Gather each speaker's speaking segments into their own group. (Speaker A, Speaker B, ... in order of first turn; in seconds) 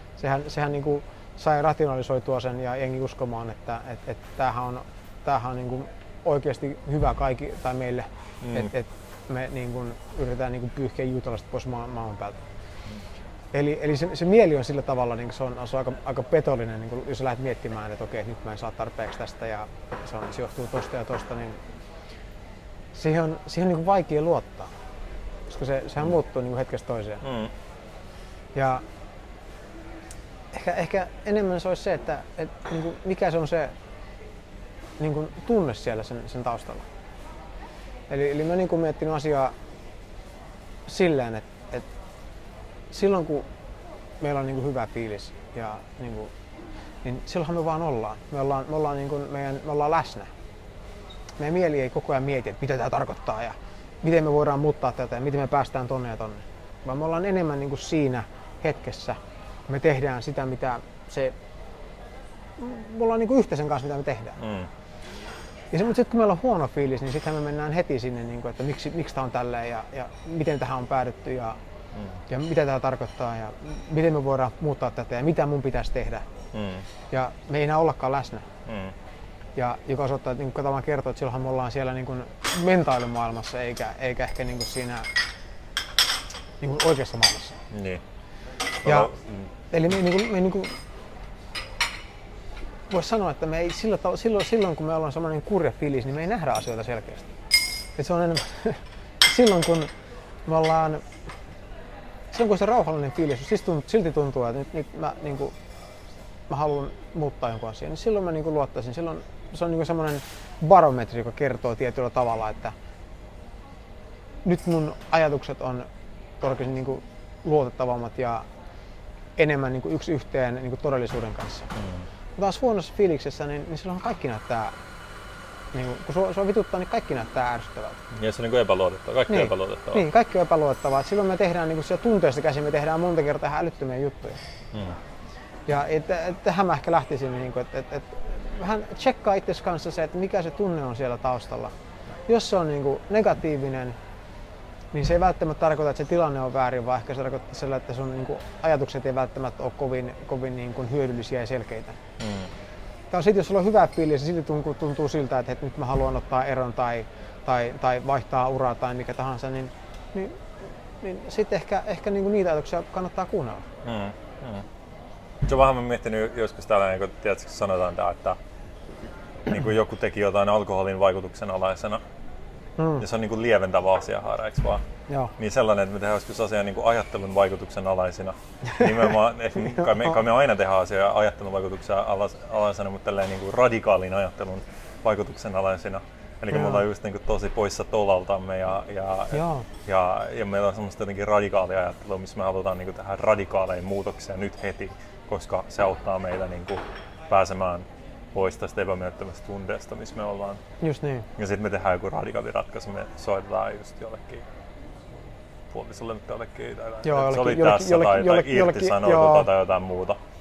Speaker A: 0.2-12.4, 13.5-21.6, 22.9-24.7, 25.5-27.2, 28.5-28.8, 30.5-33.7, 35.0-36.9, 38.1-39.5, 40.9-41.8, 42.9-43.5, 44.2-46.3, 47.0-50.3, 51.4-59.2, 59.7-61.3, 62.6-64.4, 65.7-71.6, 72.3-76.2, 77.1-78.5, 79.5-85.1, 86.6-87.6, 88.8-89.1, 89.7-90.8, 92.9-97.3, 98.0-99.9, 100.5-101.0, 102.3-105.5, 106.5-112.7, 114.4-115.8, 116.4-118.4, 119.4-121.7, 122.4-124.7, 125.7-128.0, 129.3-134.4, 135.7-141.7, 142.3-144.0, 144.9-152.0, 153.1-160.4, 161.0-163.7, 172.8-173.0, 186.5-186.8, 189.3-189.7, 200.8-201.3, 207.0-209.5
Speaker B: 8.4-8.7, 27.2-27.5, 64.4-64.7, 71.9-72.2, 76.5-76.9, 78.7-78.9, 87.7-88.0, 88.8-89.5, 121.7-122.1, 128.1-130.1, 134.7-135.0, 152.2-152.5, 163.8-164.7, 165.4-168.4, 169.5-172.0, 173.0-174.8, 175.4-200.6, 201.4-204.5, 205.7-210.2